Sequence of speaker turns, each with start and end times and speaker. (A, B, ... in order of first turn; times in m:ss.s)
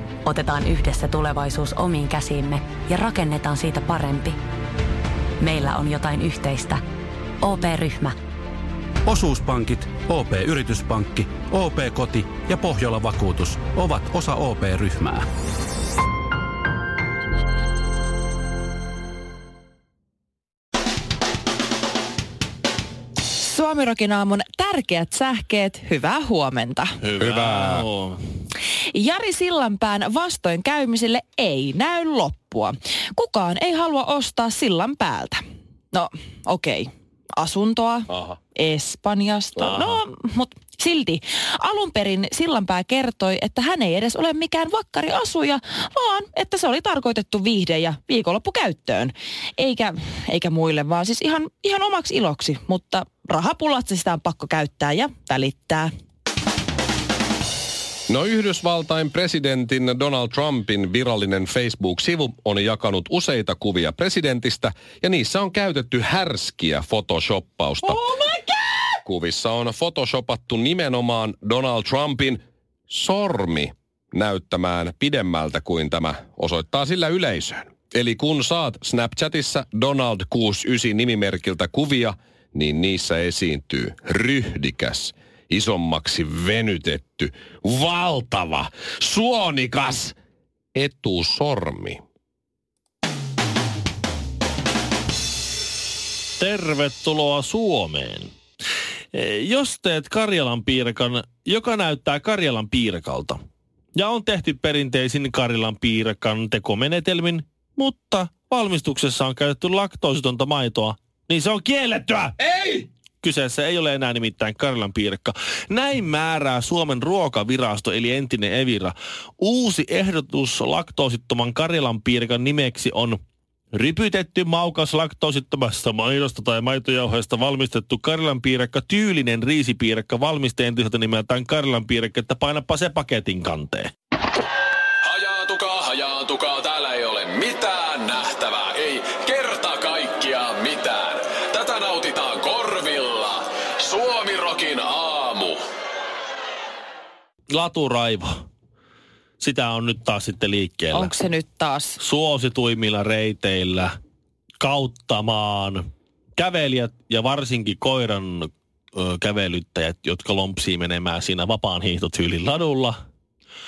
0:00.2-0:04.4 A
0:05.4-0:06.8 A
0:07.4-0:08.2 A
0:09.1-0:15.3 B
0:23.4-0:27.0 C
0:27.0-0:28.2 D
0:27.2-0:27.9 E
0:28.9-0:35.4 C
0:35.9-0:55.9 C
0:58.1-1:08.0 E
1:09.0-1:30.2 E
1:30.7-1:32.0 E
1:36.4-1:38.3 D
1:39.1-1:43.4 D
1:44.0-2:03.2 D
1:52.5-1:52.8 E
2:03.7-2:13.9 D
2:15.0-2:25.6 F
2:27.5-2:28.3 D
2:29.4-2:31.1 D
2:30.9-2:32.0 C
2:32.0-2:33.9 D
2:34.6-2:35.9 D
2:36.4-2:43.0 D